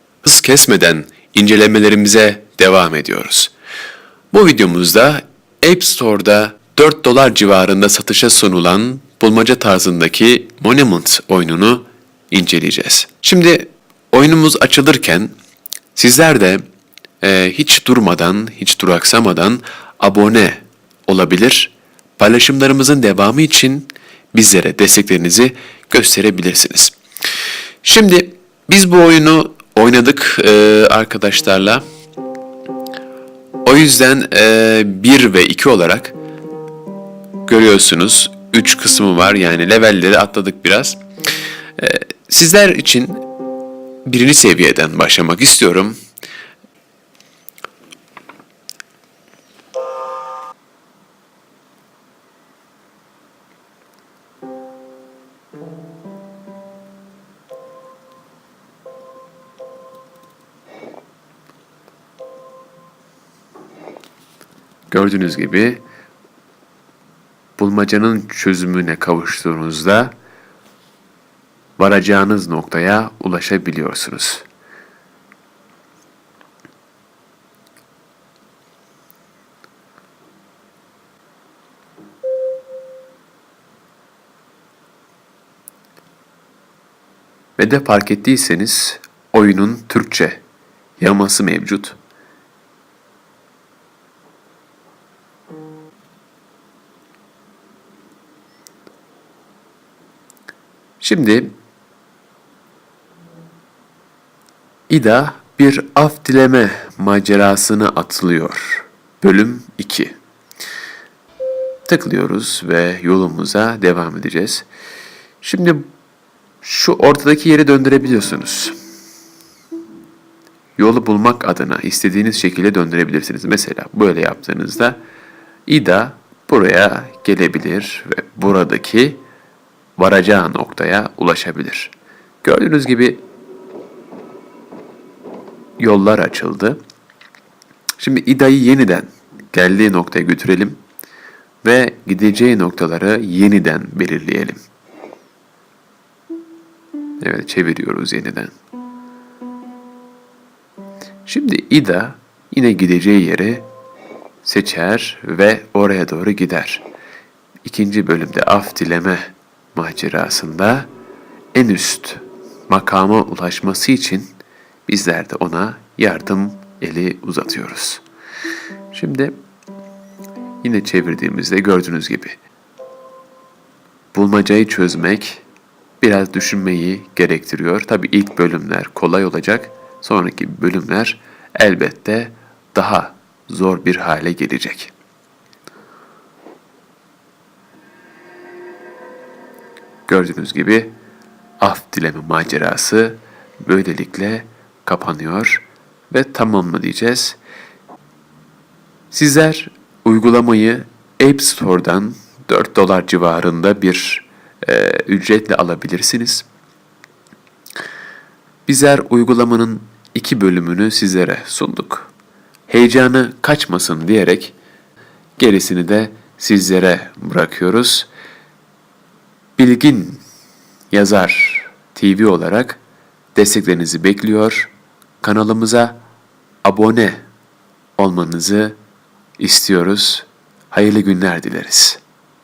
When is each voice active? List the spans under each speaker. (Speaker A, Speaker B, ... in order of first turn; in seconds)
Speaker A: 0.2-3.5, 4.3-15.3, 15.9-16.6, 17.2-26.9, 27.8-31.8, 33.6-36.1, 37.5-41.0, 41.8-43.3, 44.0-46.0, 64.9-65.8, 67.6-70.1, 71.8-74.5, 87.6-90.4, 91.0-92.0, 101.0-101.5, 104.9-110.2, 111.9-114.7, 115.4-115.8, 116.6-118.8, 120.8-125.0, 125.7-129.2, 130.0-133.2, 135.8-136.8, 138.0-140.8, 141.6-144.6, 147.2-148.5, 151.2-153.7, 154.4-156.8, 157.6-160.9, 161.5-164.3, 164.9-168.0, 168.9-169.3, 170.6-172.4, 174.1-175.4, 176.0-184.9, 190.1-190.9, 191.6-197.4, 199.1-206.4, 208.7-212.1, 212.7-214.5, 215.4-218.1, 219.6-220.2, 220.9-222.8, 223.3-226.0, 226.6-227.2, 228.0-228.8, 229.4-232.0